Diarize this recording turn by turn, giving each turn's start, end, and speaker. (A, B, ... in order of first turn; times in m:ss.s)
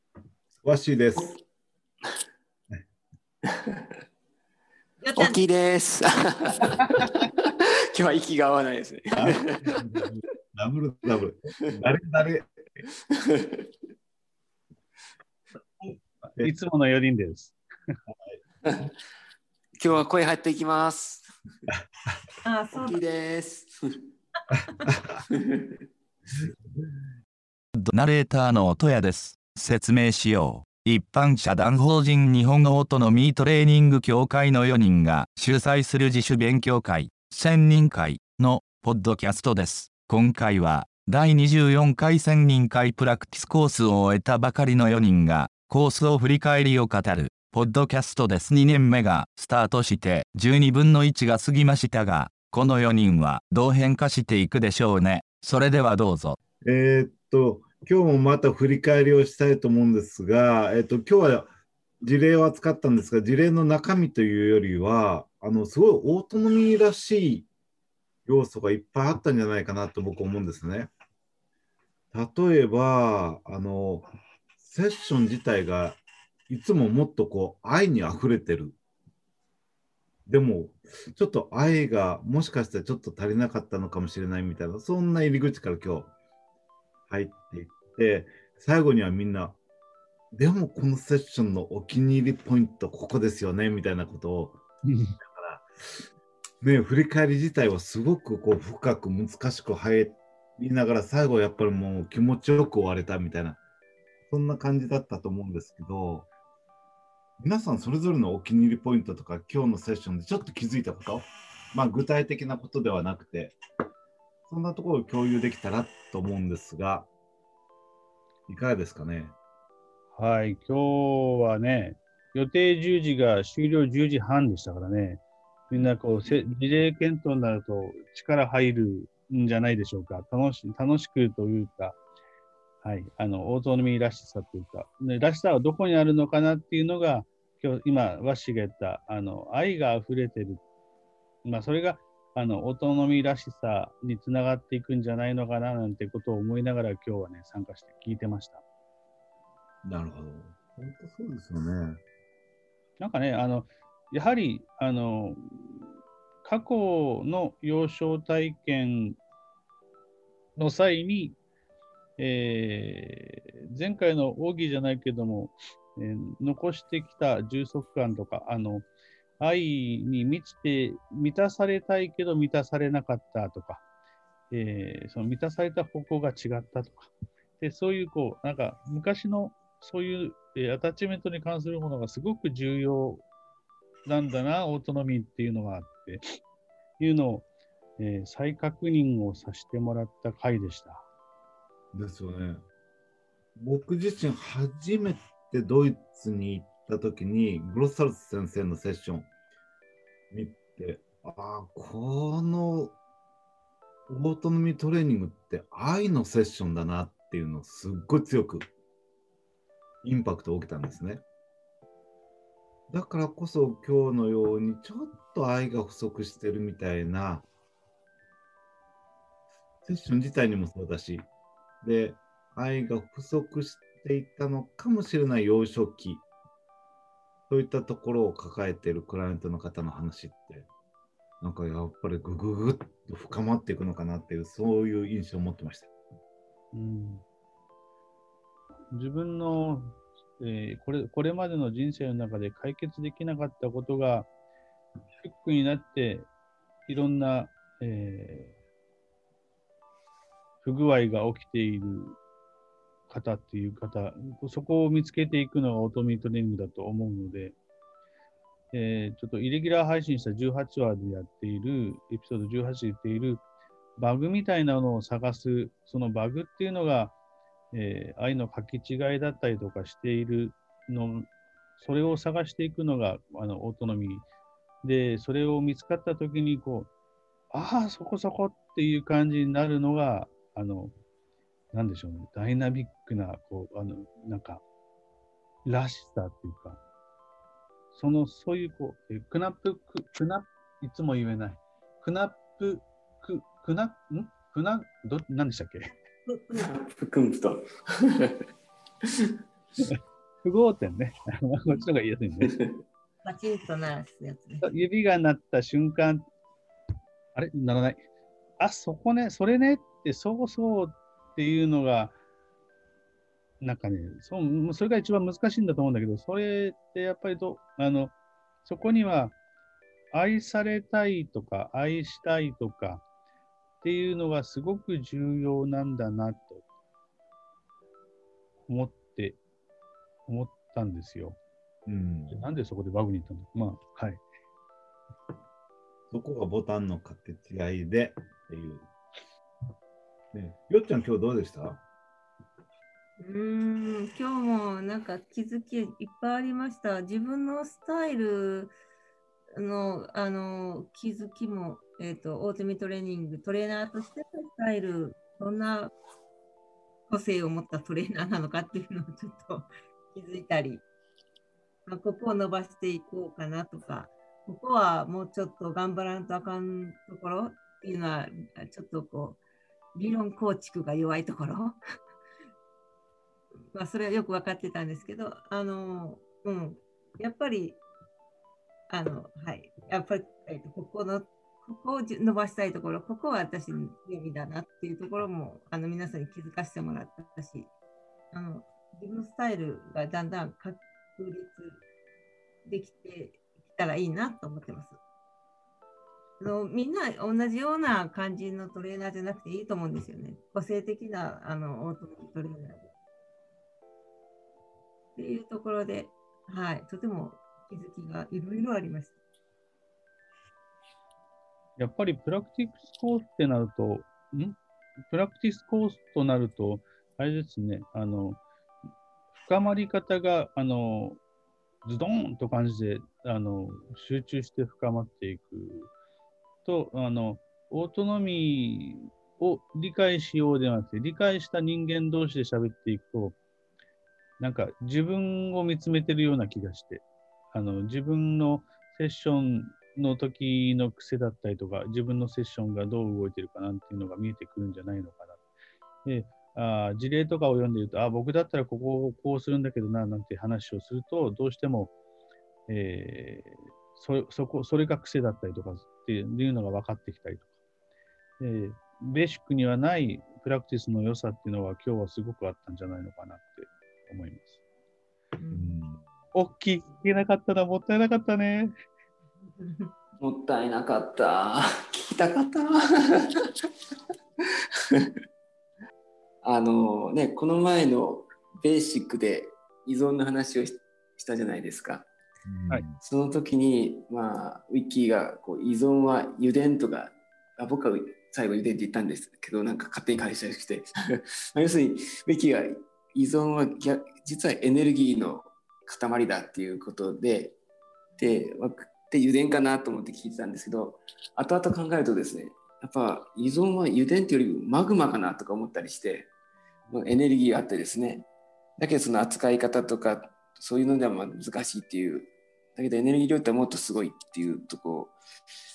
0:00.5-0:01.4 A
0:03.5-0:03.8 B
0:05.0-0:05.4 C
0:05.2-0:09.8 B
0:09.2-0:12.5 A
0:13.3-0:13.6 B
0:15.8-0:16.5 A
0:16.4-0:17.6 D
0:18.6-0:18.9 B
0:19.8-0:21.3 B
0:22.4-0:23.0 C
0:22.7-0:23.8 B
0:24.5-0:25.2 A
0:25.3-0:25.7 B
0:27.8-0:56.4 E
0:56.6-1:01.5 A
1:02.0-1:07.5 A
1:08.2-1:10.9 A
1:12.1-1:14.0 A
1:14.6-1:18.8 A
1:20.3-1:26.1 A
1:27.1-1:29.6 A
1:30.3-1:34.6 A
1:34.9-1:35.2 D
1:35.2-1:35.6 A
1:36.6-1:43.6 A
1:44.3-1:46.3 A
1:47.4-1:53.6 A
1:54.5-1:57.1 A
1:58.5-1:59.3 A
2:00.1-2:12.0 D
2:12.8-2:20.6 D
2:21.4-2:28.6 D
2:29.8-2:32.0 A
2:33.0-2:35.8 D
2:36.4-2:39.2 D
2:40.6-2:41.4 D
2:42.2-2:48.9 D
2:49.4-2:53.8 D
2:54.5-3:03.2 D
3:04.0-3:06.2 D
3:07.0-3:07.4 D
3:08.0-3:11.0 D
3:11.9-3:12.6 A
3:13.6-3:19.3 A
3:20.3-3:22.9 A
3:24.1-3:28.6 A
3:30.0-3:31.2 A
3:32.9-3:37.4 A
3:39.8-3:41.2 A
3:41.8-3:46.2 A
3:47.5-3:50.7 A
3:51.4-3:55.9 A
3:56.7-3:57.2 D
3:58.9-4:04.3 D
4:05.2-4:06.3 D
4:06.9-4:08.5 D
4:10.6-4:12.2 D
4:13.1-4:17.6 D
4:18.7-4:23.4 D
4:24.0-4:27.1 D
4:27.7-4:34.2 D
4:34.8-4:36.9 D
4:37.5-4:40.9 D
4:41.7-4:44.6 D
4:45.6-4:46.8 D
4:47.9-4:55.9 D
4:56.2-4:56.7 C
4:56.6-4:58.4 B
4:59.8-5:02.6 D
5:03.2-5:04.6 C
5:04.6-5:06.2 D
5:07.3-5:08.0 D
5:08.6-5:12.1 D
5:13.6-5:19.3 D
5:20.1-5:23.0 D
5:23.8-5:26.6 D
5:28.6-5:29.4 D
5:30.2-5:31.4 D
5:31.8-5:32.4 A
5:32.3-5:34.2 D
5:36.1-5:38.9 A
5:40.3-5:41.8 A
5:43.2-5:48.7 C
5:49.5-5:55.9 C
5:57.1-6:00.8 C
6:01.8-6:09.4 C
6:09.9-6:11.8 C
6:13.7-6:17.8 C
6:18.9-6:27.7 C
6:28.3-6:31.8 C
6:32.6-6:35.0 C
6:36.4-6:42.9 C
6:45.2-6:49.1 C
6:51.8-6:58.4 D
6:59.4-7:01.2 D
7:01.8-7:05.9 D
7:06.6-7:13.4 D
7:14.4-7:25.4 D
7:26.0-7:31.9 D
7:32.7-7:37.5 D
7:38.4-7:44.6 D
7:45.4-7:45.7 C
7:45.5-7:46.0 A
7:46.3-7:48.7 D
7:49.6-7:49.9 C
7:50.2-7:53.2 B
7:56.4-8:02.1 B
8:02.4-8:03.0 A
8:03.0-8:10.9 B
8:11.4-8:17.6 B
8:18.2-8:26.3 B
8:26.9-8:28.3 B
8:28.8-8:35.1 B